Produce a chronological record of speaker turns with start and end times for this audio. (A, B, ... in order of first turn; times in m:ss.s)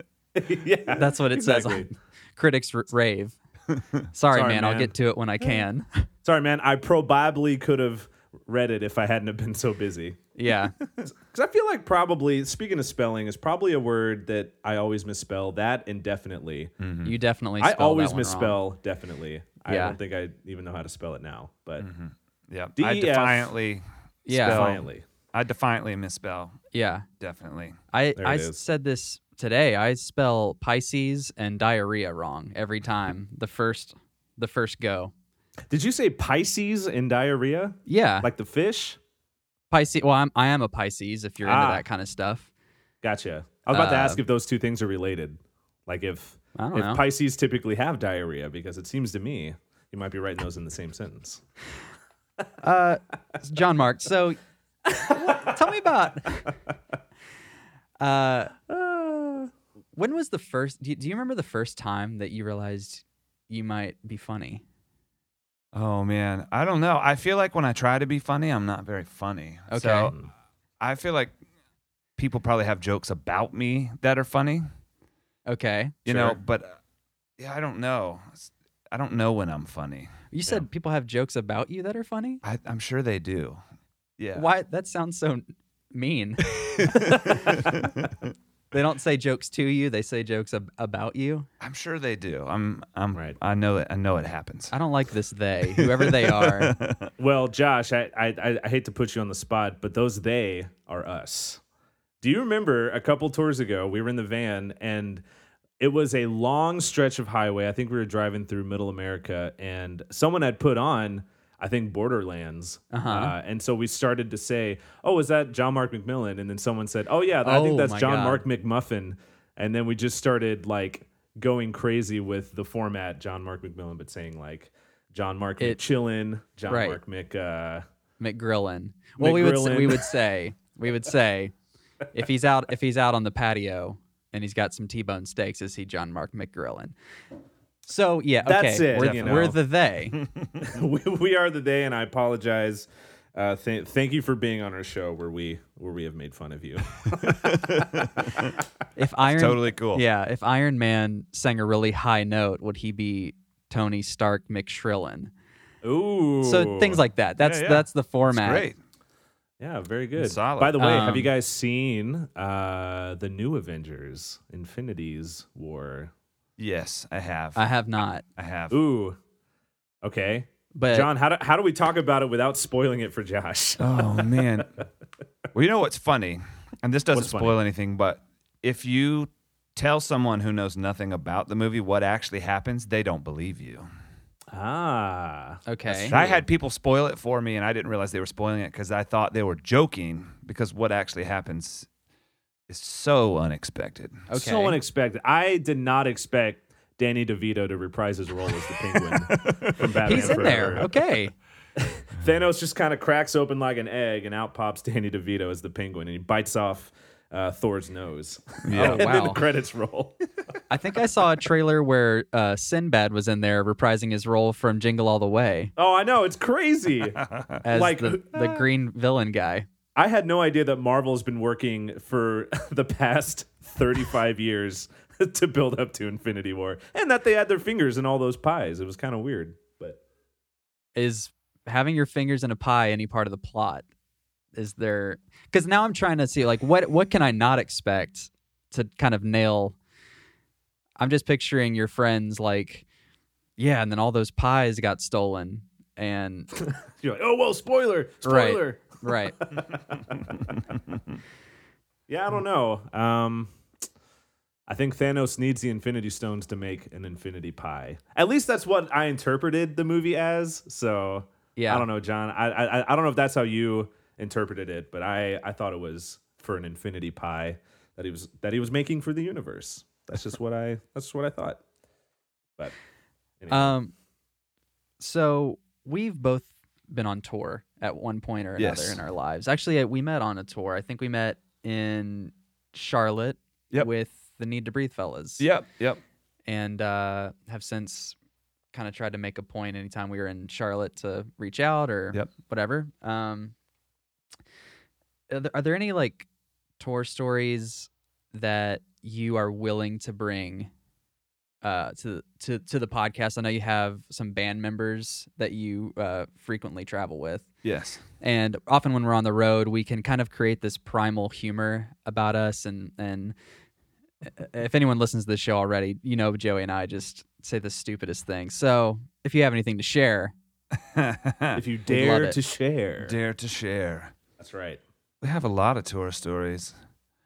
0:00.4-0:01.9 A
0:00.9-0:03.4 B
0:04.1-0:06.1 B
0:04.3-0:04.9 A
0:06.2-0:10.2 A
0:10.4-0:10.8 B
0:11.2-0:16.7 A
0:16.8-0:17.2 C
0:17.0-0:18.6 B
0:17.6-0:21.9 A
0:19.7-0:20.0 B
0:21.8-0:26.6 C
0:22.8-0:23.5 A
0:24.3-0:24.7 B
0:24.3-0:25.0 A
0:26.7-0:27.1 B
0:27.2-0:27.8 C
0:27.9-0:35.1 B
0:28.2-0:28.6 A
0:35.7-0:39.0 A
0:37.9-0:38.3 B
0:39.7-0:42.5 B
0:41.4-0:41.8 A
0:43.0-0:51.4 A
0:43.7-0:44.2 B
0:46.6-0:47.0 B
0:52.6-0:54.4 B
0:55.0-0:55.6 A
0:55.0-0:56.6 B
0:58.0-0:58.5 B
0:58.7-0:59.5 A
1:00.0-1:04.6 B
1:05.7-1:10.2 C
1:09.7-1:10.1 B
1:10.8-1:11.4 C
1:12.2-1:14.7 C
1:15.5-1:16.3 B
1:16.1-1:16.8 C
1:17.4-1:20.1 C
1:20.3-1:22.4 B
1:22.4-1:23.6 C
1:24.2-1:24.5 C
1:24.3-1:27.7 B
1:26.6-1:28.3 C
1:28.7-1:31.5 B
1:31.6-1:34.7 C
1:34.7-1:36.8 B
1:35.8-1:37.1 C
1:37.2-1:41.6 A
1:42.2-1:45.2 A
1:45.8-2:07.8 A
1:52.9-1:53.4 B
1:57.4-1:58.4 B
2:06.7-2:07.0 B
2:08.2-2:11.5 B
2:09.2-2:10.1 A
2:12.1-2:16.9 B
2:17.9-2:20.2 B
2:18.4-2:19.6 A
2:20.2-2:20.7 C
2:20.6-2:28.5 A
2:27.1-2:28.6 C
2:29.0-2:35.3 B
2:29.3-2:30.0 C
2:35.8-2:37.0 A
2:36.4-2:38.7 B
2:37.4-2:38.8 C
2:39.6-2:46.1 A
2:40.2-2:40.8 C
2:40.8-2:41.3 B
2:46.6-2:47.7 C
2:47.6-2:48.2 B
2:48.4-2:48.8 C
2:48.7-2:49.2 A
2:50.0-2:54.6 A
2:50.8-2:51.1 B
2:53.8-2:54.7 C
2:55.5-3:03.9 C
2:57.1-2:57.6 A
3:04.5-3:06.4 A
3:05.7-3:06.2 B
3:06.0-3:11.9 C
3:12.7-3:14.3 C
3:14.3-3:14.8 B
3:14.3-3:20.9 A
3:19.0-3:20.8 C
3:20.0-3:21.3 B
3:21.8-3:30.2 A
3:28.6-3:29.1 C
3:28.7-3:29.4 B
3:30.7-3:35.7 B
3:35.8-3:38.6 A
3:37.2-3:37.6 C
3:37.6-3:39.7 B
3:40.0-3:50.0 A
3:51.0-3:53.8 B
3:54.6-3:59.8 B
4:01.0-4:02.8 B
4:03.6-4:06.5 B
4:06.6-4:10.5 A
4:08.2-4:09.4 B
4:12.1-4:13.5 A
4:14.7-4:31.6 A
4:21.6-4:21.9 B
4:33.4-4:33.8 A
4:33.5-4:33.9 B
4:35.0-4:45.5 B
4:38.6-4:39.0 C
4:45.4-4:46.0 C
4:46.5-4:48.2 B
4:48.7-4:53.5 B
4:55.3-4:56.3 B
4:56.8-5:00.7 B
5:01.6-5:07.5 B
5:07.6-5:08.0 C
5:08.2-5:13.4 B
5:14.3-5:20.3 B
5:20.7-5:21.6 C
5:21.6-5:23.2 A
5:21.9-5:22.4 B
5:23.0-5:24.2 C
5:24.4-5:24.8 A
5:25.2-5:26.8 C